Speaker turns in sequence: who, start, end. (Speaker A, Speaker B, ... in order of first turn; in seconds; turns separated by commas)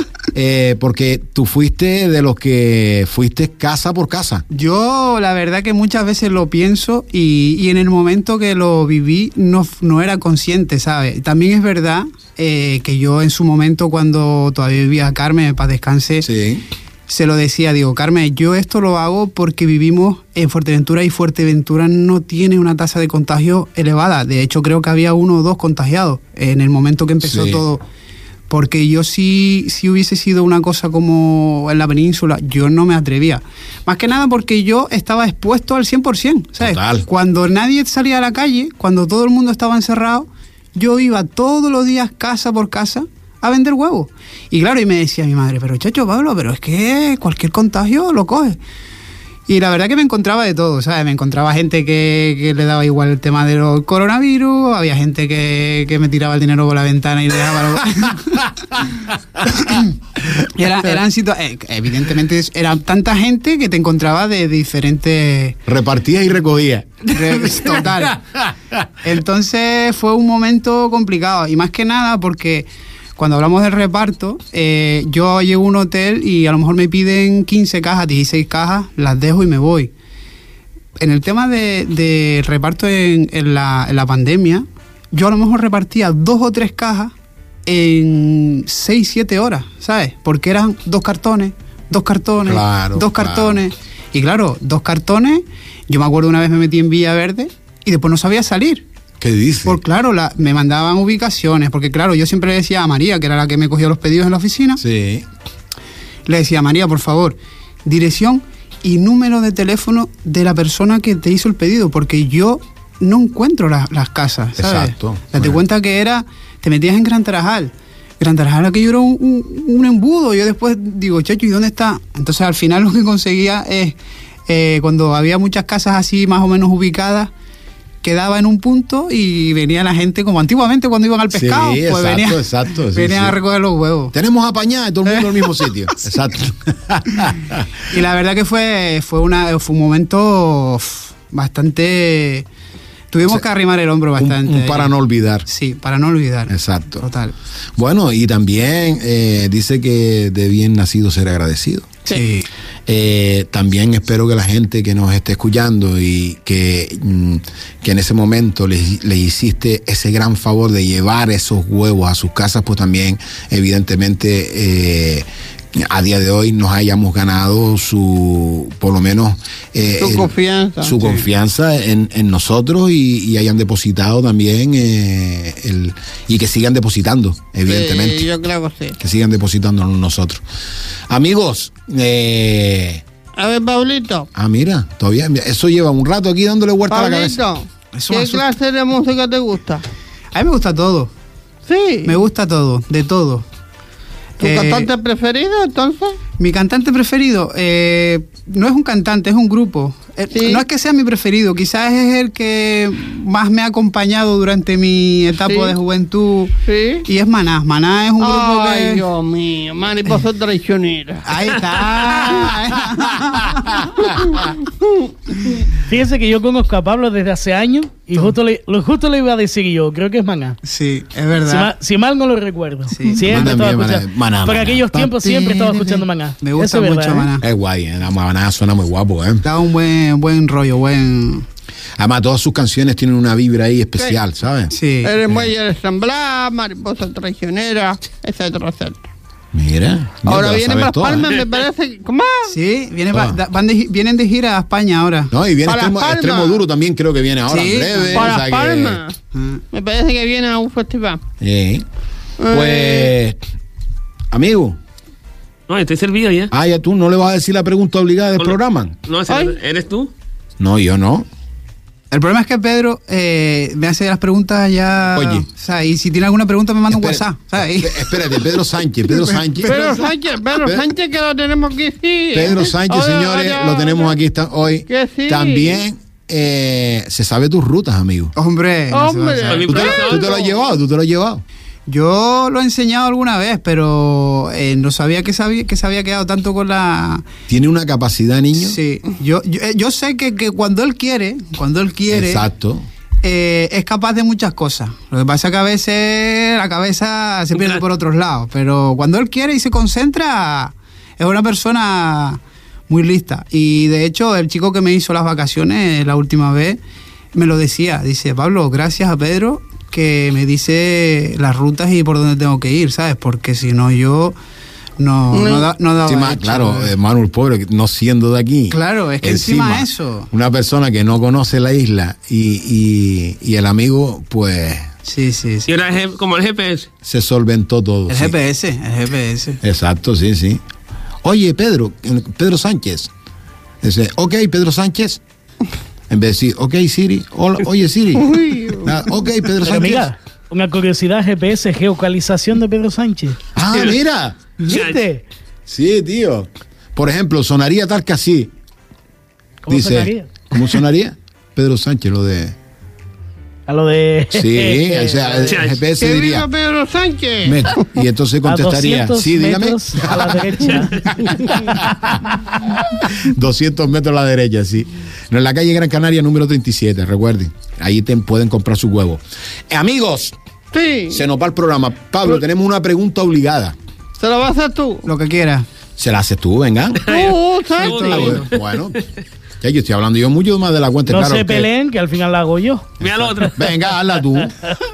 Speaker A: 0.3-4.4, Speaker B: 4.5-16.3, Speaker A: 16.2-16.6, Speaker B: 17.1-27.8, Speaker A: 27.2-27.6, Speaker B: 28.5-48.6, Speaker A: 36.6-37.1, Speaker B: 49.5-59.9, Speaker B: 60.5-65.6, Speaker A: 65.7-68.8, Speaker B: 67.0-68.2, Speaker B: 69.0-79.9, Speaker B: 81.0-87.1, Speaker B: 87.7-98.8, Speaker A: 92.5-93.6, Speaker A: 99.2-99.8, Speaker B: 99.6-104.8, Speaker A: 104.8-105.2, Speaker B: 106.2-124.0, Speaker A: 114.6-115.6, Speaker B: 124.5-127.3, Speaker B: 128.0-134.1, Speaker A: 131.3-133.4, Speaker A: 134.1-137.7, Speaker B: 135.2-135.7, Speaker B: 137.9-142.4, Speaker B: 143.1-144.9, Speaker A: 144.2-145.5, Speaker B: 145.4-147.3, Speaker A: 146.5-147.0, Speaker A: 147.8-151.9, Speaker B: 152.1-152.5, Speaker A: 152.9-178.3, Speaker C: 170.0-171.0, Speaker C: 177.7-179.0, Speaker A: 179.0-180.4, Speaker A: 181.1-183.0, Speaker C: 183.3-184.3, Speaker A: 184.3-187.4, Speaker C: 186.9-189.8, Speaker B: 187.9-188.5, Speaker B: 190.3-191.1, Speaker C: 191.7-192.2, Speaker B: 192.0-193.4, Speaker B: 194.4-194.9, Speaker C: 194.4-196.2, Speaker B: 196.4-209.0, Speaker C: 200.3-200.6, Speaker C: 205.4-205.8, Speaker C: 206.7-207.1, Speaker C: 208.2-211.2, Speaker B: 211.2-214.2, Speaker C: 214.0-215.1, Speaker D: 215.7-220.6, Speaker B: 220.6-221.7, Speaker D: 221.4-227.3, Speaker B: 222.9-223.7, Speaker A: 223.2-225.2, Speaker B: 225.2-227.4, Speaker A: 227.4-229.4, Speaker B: 229.4-231.4, Speaker A: 232.0-234.7, Speaker B: 234.7-235.2, Speaker C: 235.0-239.0, Speaker A: 235.2-235.5, Speaker A: 239.5-241.3, Speaker C: 240.2-242.6, Speaker B: 242.5-245.3, Speaker A: 243.1-243.4, Speaker A: 245.3-249.0, Speaker C: 245.6-246.6, Speaker B: 247.5-248.3, Speaker C: 248.1-249.1, Speaker B: 249.3-249.6, Speaker C: 249.7-251.2, Speaker A: 251.4-251.8, Speaker C: 252.4-253.1, Speaker A: 252.5-253.4, Speaker A: 254.3-254.8, Speaker E: 255.7-256.5, Speaker A: 256.5-258.9, Speaker E: 258.4-260.1, Speaker C: 259.3-259.5, Speaker A: 260.6-261.3, Speaker B: 262.1-268.3, Speaker A: 265.1-265.4, Speaker A: 266.9-270.9, Speaker B: 269.1-269.6, Speaker C: 269.6-274.1, Speaker A: 272.3-278.3, Speaker C: 274.9-275.8, Speaker B: 278.3-279.7, Speaker C: 278.9-280.6, Speaker E: 279.5-280.4, Speaker A: 279.6-281.4, Speaker B: 281.9-287.3, Speaker A: 287.5-288.8, Speaker B: 288.6-292.4, Speaker A: 292.1-292.8, Speaker B: 293.2-306.8, Speaker B: 307.3-314.4, Speaker B: 315.0-316.9, Speaker C: 315.3-315.7, Speaker A: 316.1-324.9, Speaker B: 318.7-320.3, Speaker B: 325.0-325.7, Speaker E: 325.7-326.9, Speaker A: 327.0-328.3, Speaker B: 328.1-329.6, Speaker A: 329.6-330.6, Speaker A: 331.2-333.1, Speaker A: 333.8-335.2, Speaker A: 336.1-340.1, Speaker C: 338.2-339.0, Speaker D: 339.6-343.4, Speaker A: 343.6-344.4, Speaker E: 343.7-343.9, Speaker D: 344.6-345.2, Speaker E: 344.7-345.0, Speaker A: 345.7-348.5, Speaker D: 349.6-350.4, Speaker A: 349.7-352.6, Speaker D: 353.7-355.5, Speaker A: 354.3-356.5, Speaker E: 355.4-355.8, Speaker C: 356.0-357.8, Speaker A: 357.4-370.3, Speaker D: 358.4-361.8, Speaker C: 370.7-371.2, Speaker A: 371.1-373.8, Speaker C: 374.2-375.1, Speaker B: 375.1-375.6, Speaker A: 376.0-377.1, Speaker E: 377.0-378.8, Speaker C: 377.1-378.4, Speaker B: 377.8-378.5, Speaker A: 378.0-379.0, Speaker A: 379.6-381.7, Speaker D: 381.1-383.5, Speaker E: 383.0-383.7, Speaker A: 383.5-384.7